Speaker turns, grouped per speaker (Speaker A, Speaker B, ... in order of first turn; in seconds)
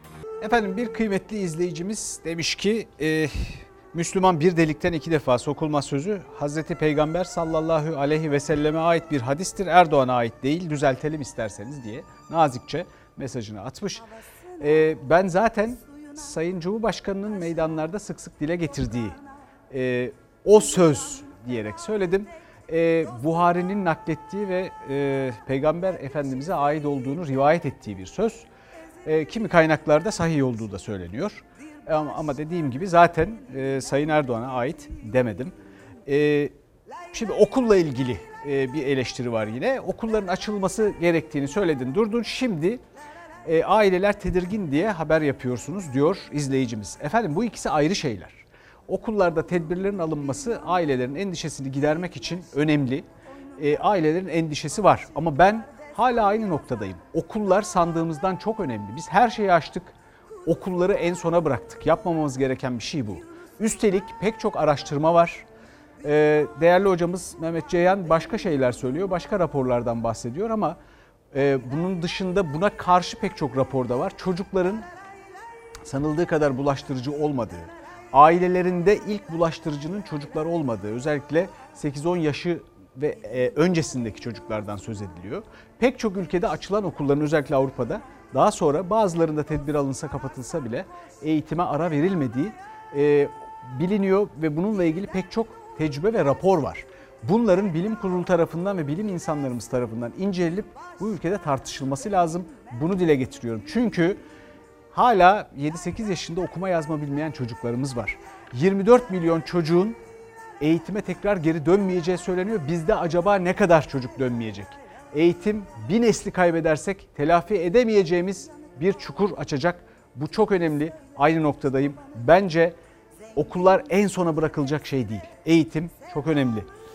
Speaker A: 0.4-14.1, 14.6-28.5, 29.0-35.5, 36.0-36.5, 37.1-42.8, 43.4-59.9, 60.5-65.5, 66.0-70.8, 71.3-74.8, 75.8-104.2, 104.9-110.0, 110.6-122.8, 123.3-126.7